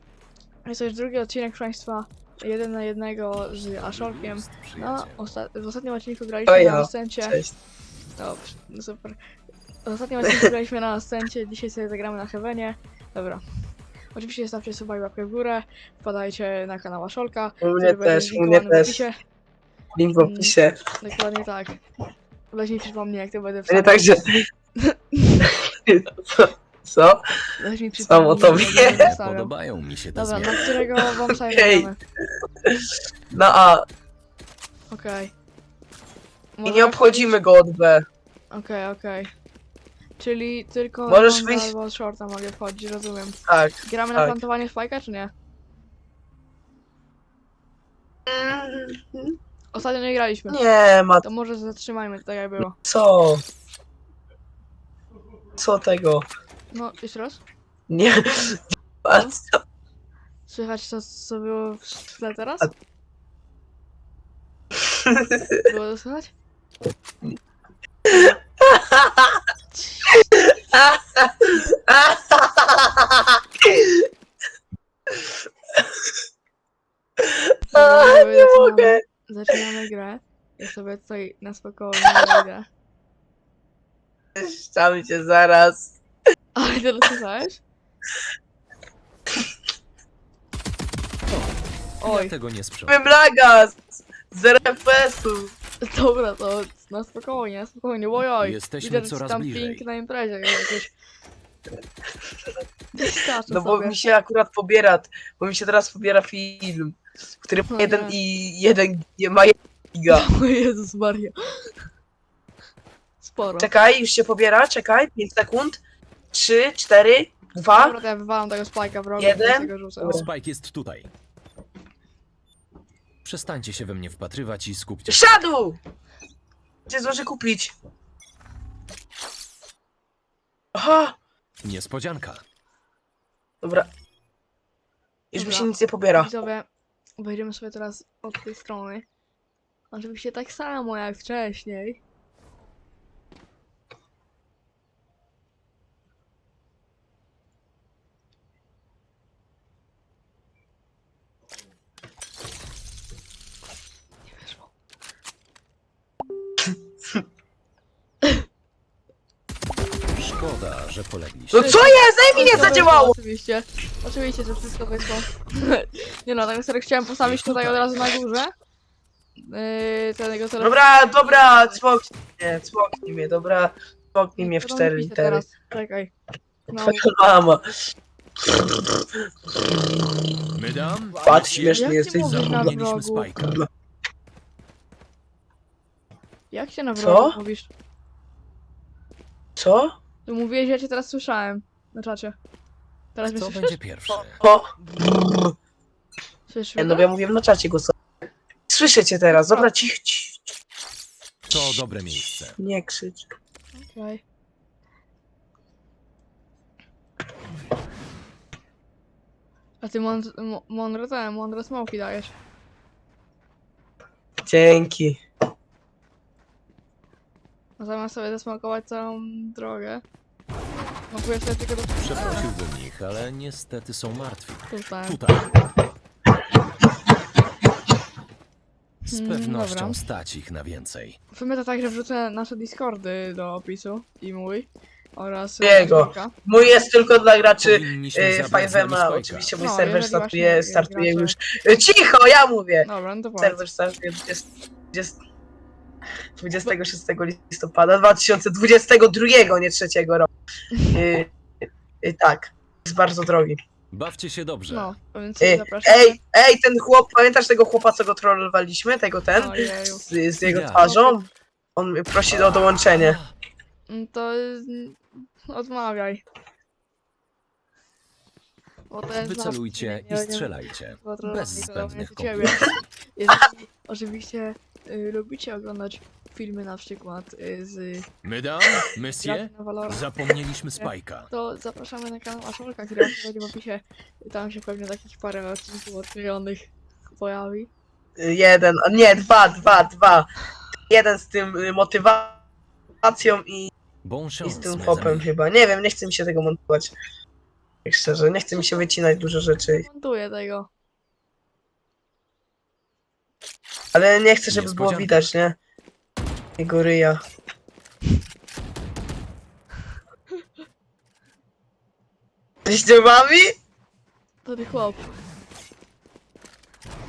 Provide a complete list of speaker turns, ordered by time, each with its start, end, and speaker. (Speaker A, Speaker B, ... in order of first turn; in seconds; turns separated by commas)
Speaker A: 0.6-7.4, Speaker B: 3.6-5.2, Speaker C: 6.5-7.5, Speaker A: 8.2-9.2, Speaker A: 9.8-13.4, Speaker A: 14.1-19.2, Speaker C: 17.6-19.0, Speaker C: 19.9-20.8, Speaker A: 20.2-21.8, Speaker A: 22.5-24.2, Speaker C: 23.7-24.4, Speaker A: 24.8-25.5, Speaker C: 25.4-27.2, Speaker A: 27.6-29.5, Speaker C: 28.0-29.1, Speaker B: 28.4-30.6, Speaker A: 30.1-32.0, Speaker C: 31.0-31.9, Speaker C: 32.6-33.9, Speaker A: 34.9-35.3, Speaker A: 36.6-37.3, Speaker C: 36.6-38.0, Speaker A: 38.5-39.3, Speaker A: 40.2-45.3, Speaker C: 41.1-41.7, Speaker C: 43.5-44.4, Speaker C: 48.3-49.4, Speaker A: 49.7-50.6, Speaker C: 50.5-51.2, Speaker A: 51.2-52.8, Speaker C: 52.8-53.4, Speaker C: 55.5-56.3, Speaker A: 56.7-57.4, Speaker C: 57.9-59.4, Speaker A: 59.1-59.3, Speaker A: 60.5-62.7, Speaker C: 64.9-65.6, Speaker A: 65.6-66.3, Speaker C: 68.1-69.4, Speaker A: 69.7-70.4, Speaker C: 70.3-74.1, Speaker C: 77.2-79.0, Speaker A: 77.7-82.7, Speaker C: 84.3-86.0, Speaker A: 86.5-87.6, Speaker B: 91.3-93.0, Speaker A: 92.0-92.3, Speaker C: 92.9-95.5, Speaker A: 95.8-100.9, Speaker B: 98.4-99.8, Speaker A: 103.0-104.0, Speaker C: 103.5-110.3, Speaker A: 107.7-108.2, Speaker A: 110.1-111.7, Speaker A: 113.2-113.7, Speaker C: 113.6-115.8, Speaker C: 116.3-118.0, Speaker A: 117.7-120.2, Speaker C: 119.2-120.3, Speaker B: 120.0-121.1, Speaker B: 123.2-125.3, Speaker C: 125.1-125.8, Speaker C: 126.9-127.7, Speaker C: 130.7-131.2, Speaker B: 131.6-132.4, Speaker C: 133.6-133.9, Speaker C: 135.3-136.3, Speaker A: 135.3-136.7, Speaker A: 137.2-139.1, Speaker A: 139.9-142.0, Speaker A: 154.3-154.7, Speaker B: 160.1-161.8, Speaker C: 161.5-163.1, Speaker A: 161.6-168.5, Speaker B: 162.5-162.8, Speaker B: 167.2-168.0, Speaker A: 169.4-171.8, Speaker C: 170.6-175.4, Speaker A: 174.4-176.1, Speaker A: 176.7-177.1, Speaker C: 176.8-177.6, Speaker C: 178.6-179.2, Speaker B: 180.5-183.6, Speaker C: 181.2-182.7, Speaker A: 181.7-183.3, Speaker C: 183.4-183.7, Speaker A: 186.5-187.7, Speaker C: 187.0-187.4, Speaker C: 189.6-189.9, Speaker A: 190.2-192.4, Speaker A: 193.1-193.8, Speaker B: 193.3-194.4, Speaker C: 194.4-195.5, Speaker A: 196.5-197.1, Speaker C: 196.8-197.9, Speaker C: 198.7-200.4, Speaker A: 199.3-199.9, Speaker B: 201.5-202.6, Speaker C: 202.6-203.2, Speaker A: 203.7-204.2, Speaker A: 209.8-212.3, Speaker C: 214.4-215.2, Speaker A: 217.8-220.0, Speaker A: 221.1-222.4, Speaker B: 222.0-225.5, Speaker A: 224.7-225.2, Speaker A: 229.1-230.0, Speaker B: 229.1-231.2, Speaker A: 231.3-236.3, Speaker C: 235.6-242.9, Speaker B: 237.6-239.5, Speaker A: 239.6-241.3, Speaker A: 242.8-243.6, Speaker C: 243.4-245.2, Speaker C: 246.4-250.3, Speaker C: 250.9-251.3, Speaker C: 252.0-253.6, Speaker B: 253.9-254.9, Speaker A: 254.7-256.2, Speaker C: 255.4-263.2, Speaker A: 259.3-260.0, Speaker B: 260.4-260.9, Speaker A: 260.8-261.2, Speaker B: 263.0-263.3, Speaker A: 263.9-266.2, Speaker A: 268.9-278.1, Speaker B: 269.1-272.8, Speaker B: 278.2-281.3, Speaker A: 279.2-280.1, Speaker A: 280.8-287.7, Speaker C: 288.2-290.3, Speaker C: 290.9-292.4, Speaker C: 293.0-293.7, Speaker B: 294.0-295.3, Speaker C: 294.4-296.9, Speaker C: 297.8-299.8, Speaker A: 299.6-300.7, Speaker C: 303.9-305.6, Speaker B: 304.5-305.1, Speaker C: 306.6-307.2, Speaker C: 312.6-313.5, Speaker A: 314.4-315.1